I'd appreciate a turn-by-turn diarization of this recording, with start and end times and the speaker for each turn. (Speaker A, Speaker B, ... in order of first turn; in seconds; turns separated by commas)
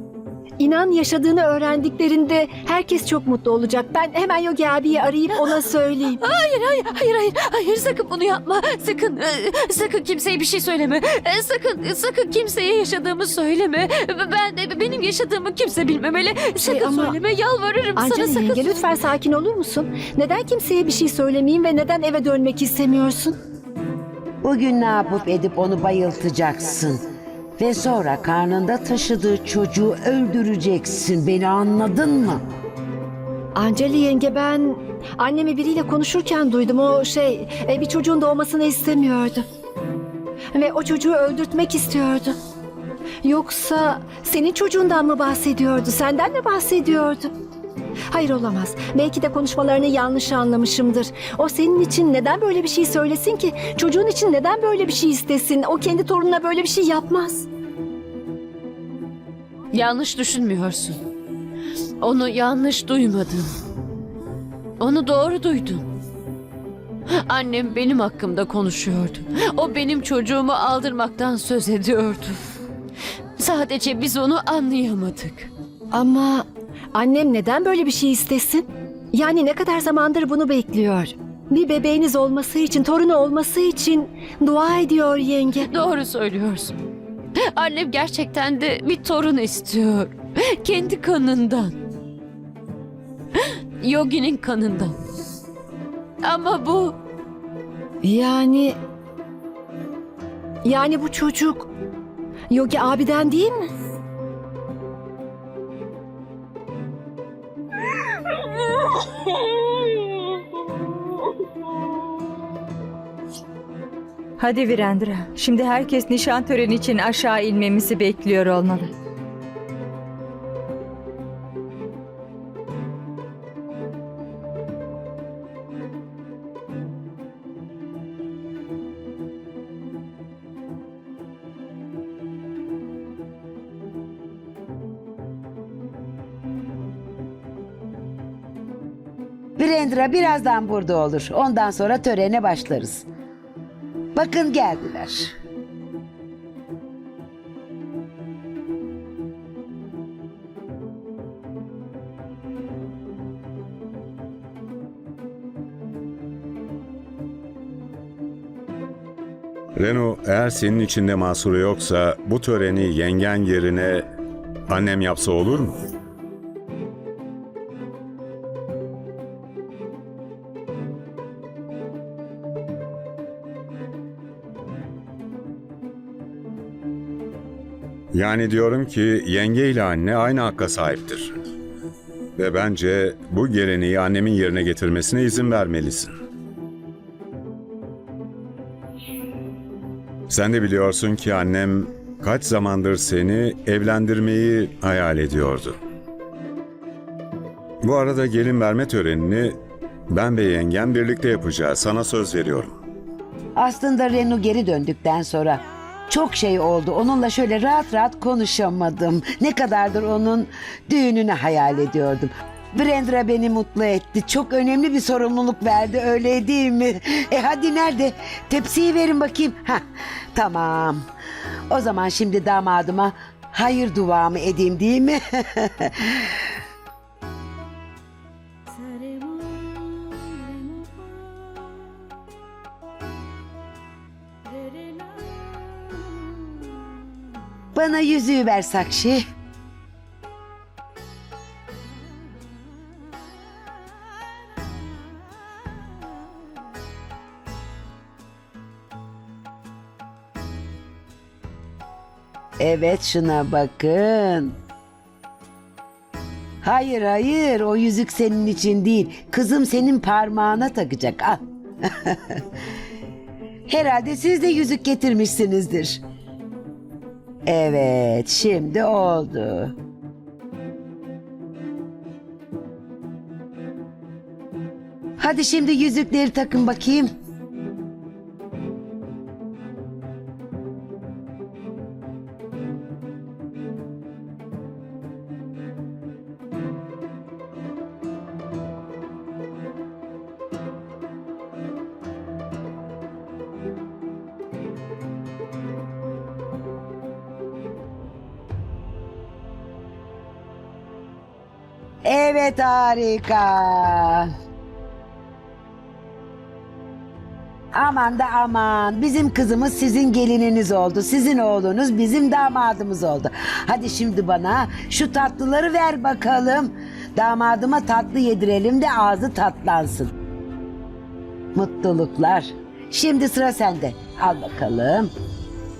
Speaker A: 0.6-6.2, Speaker B: 6.2-18.7, Speaker A: 16.6-17.2, Speaker A: 17.9-23.4, Speaker C: 24.4-27.0, Speaker C: 27.6-32.4, Speaker A: 33.5-39.4, Speaker A: 40.5-42.4, Speaker A: 43.2-47.3, Speaker A: 48.1-57.5, Speaker B: 59.7-61.0, Speaker B: 62.0-63.5, Speaker B: 64.8-65.9, Speaker B: 67.2-72.4, Speaker B: 73.4-75.5, Speaker A: 75.9-85.7, Speaker B: 85.6-86.7, Speaker B: 87.5-91.7, Speaker B: 93.4-94.9, Speaker B: 96.2-97.0, Speaker A: 98.0-98.8, Speaker A: 100.6-101.7, Speaker A: 102.5-103.7, Speaker D: 114.4-118.9, Speaker C: 139.6-143.1, Speaker C: 144.1-145.3, Speaker E: 159.8-164.0, Speaker E: 164.7-165.8, Speaker E: 178.1-181.3, Speaker E: 182.4-186.1, Speaker E: 190.3-195.8, Speaker E: 197.8-199.5, Speaker E: 200.1-202.7, Speaker C: 203.6-219.8, Speaker C: 220.3-221.0, Speaker C: 221.7-226.3, Speaker C: 237.7-239.2, Speaker C: 252.6-254.5, Speaker C: 256.6-262.4, Speaker C: 263.7-266.0, Speaker C: 267.4-269.7, Speaker C: 275.2-277.1, Speaker C: 302.0-304.3, Speaker C: 307.7-320.1, Speaker C: 321.5-325.1